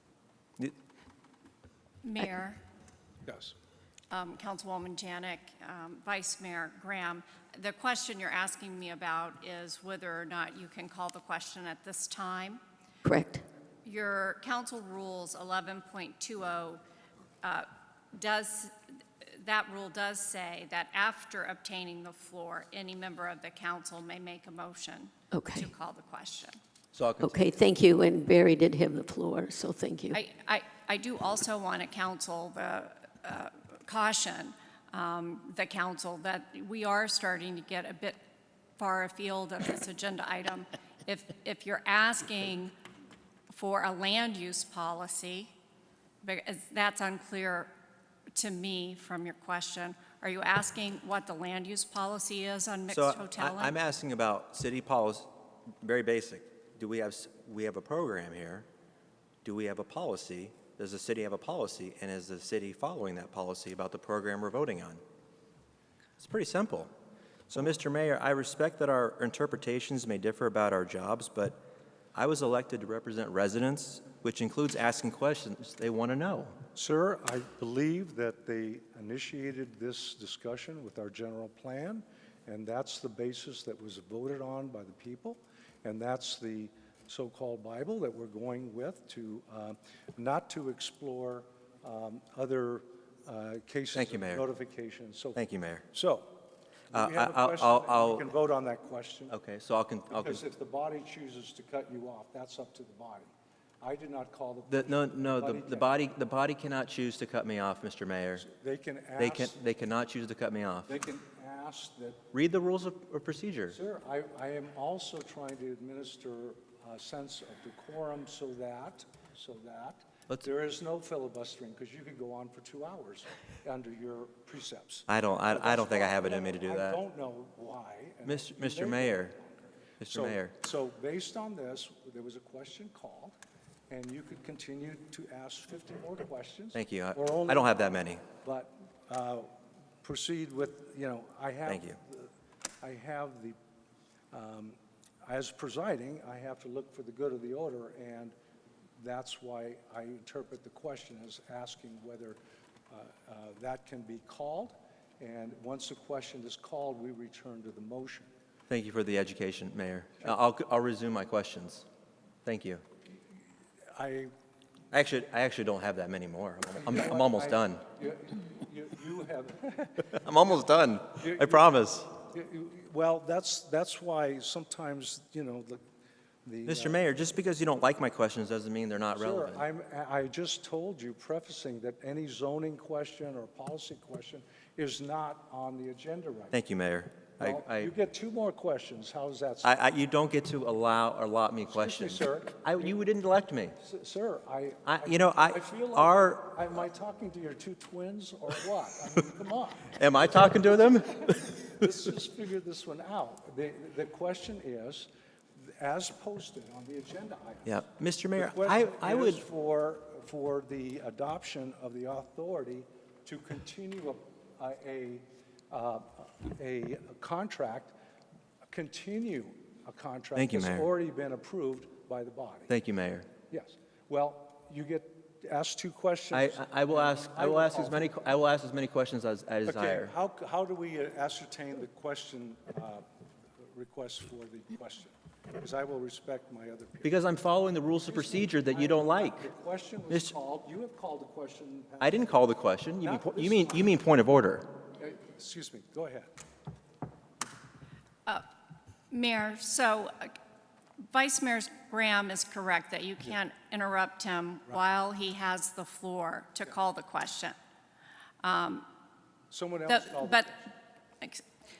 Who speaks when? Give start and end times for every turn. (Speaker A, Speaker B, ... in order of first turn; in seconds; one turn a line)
Speaker A: 2.0-2.6
Speaker B: 3.2-3.5
Speaker A: 4.1-12.6
Speaker C: 13.0-13.4
Speaker A: 13.8-16.8
Speaker A: 17.4-18.7
Speaker A: 19.2-26.6
Speaker C: 25.3-25.7
Speaker D: 26.9-27.5
Speaker C: 27.2-30.2
Speaker A: 30.1-38.2
Speaker A: 38.8-42.7
Speaker A: 43.5-45.5
Speaker A: 46.2-47.7
Speaker A: 48.3-53.8
Speaker D: 52.9-55.3
Speaker D: 55.8-58.7
Speaker D: 59.4-65.0
Speaker D: 66.2-66.9
Speaker D: 67.5-71.6
Speaker D: 72.1-76.5
Speaker B: 76.7-96.3
Speaker D: 93.9-94.4
Speaker D: 95.3-95.8
Speaker B: 96.9-99.3
Speaker D: 96.9-98.3
Speaker D: 99.3-100.4
Speaker B: 100.1-106.0
Speaker D: 104.7-108.4
Speaker B: 108.4-109.5
Speaker D: 109.2-110.9
Speaker B: 110.9-112.2
Speaker D: 112.3-113.8
Speaker B: 113.7-129.6
Speaker D: 125.1-127.0
Speaker D: 128.2-129.3
Speaker D: 130.0-130.5
Speaker B: 130.1-133.3
Speaker B: 133.9-139.5
Speaker D: 136.7-138.2
Speaker B: 140.0-143.6
Speaker D: 141.7-142.0
Speaker B: 144.3-148.3
Speaker B: 149.0-152.4
Speaker B: 152.9-158.3
Speaker D: 158.7-161.8
Speaker D: 162.4-162.8
Speaker B: 163.9-164.3
Speaker D: 164.9-167.8
Speaker B: 166.8-170.2
Speaker D: 170.1-172.1
Speaker B: 171.2-175.8
Speaker B: 176.4-177.0
Speaker D: 176.6-179.6
Speaker B: 179.1-186.6
Speaker D: 186.5-187.9
Speaker B: 187.4-189.7
Speaker D: 189.6-193.8
Speaker B: 191.7-192.9
Speaker B: 193.8-207.8
Speaker D: 194.8-196.6
Speaker D: 199.9-201.9
Speaker D: 207.7-209.4
Speaker B: 208.3-217.9
Speaker B: 218.7-222.7
Speaker D: 220.3-220.9
Speaker D: 222.7-223.3
Speaker B: 223.5-228.1
Speaker D: 226.3-230.1
Speaker B: 229.7-233.0
Speaker B: 233.7-237.2
Speaker D: 237.0-239.5
Speaker B: 238.1-242.4
Speaker D: 240.1-240.3
Speaker D: 242.0-244.7
Speaker B: 243.0-244.0
Speaker B: 245.0-246.3
Speaker A: 249.1-250.3
Speaker A: 251.1-257.5
Speaker A: 258.4-258.9
Speaker B: 259.5-260.5
Speaker A: 259.9-260.7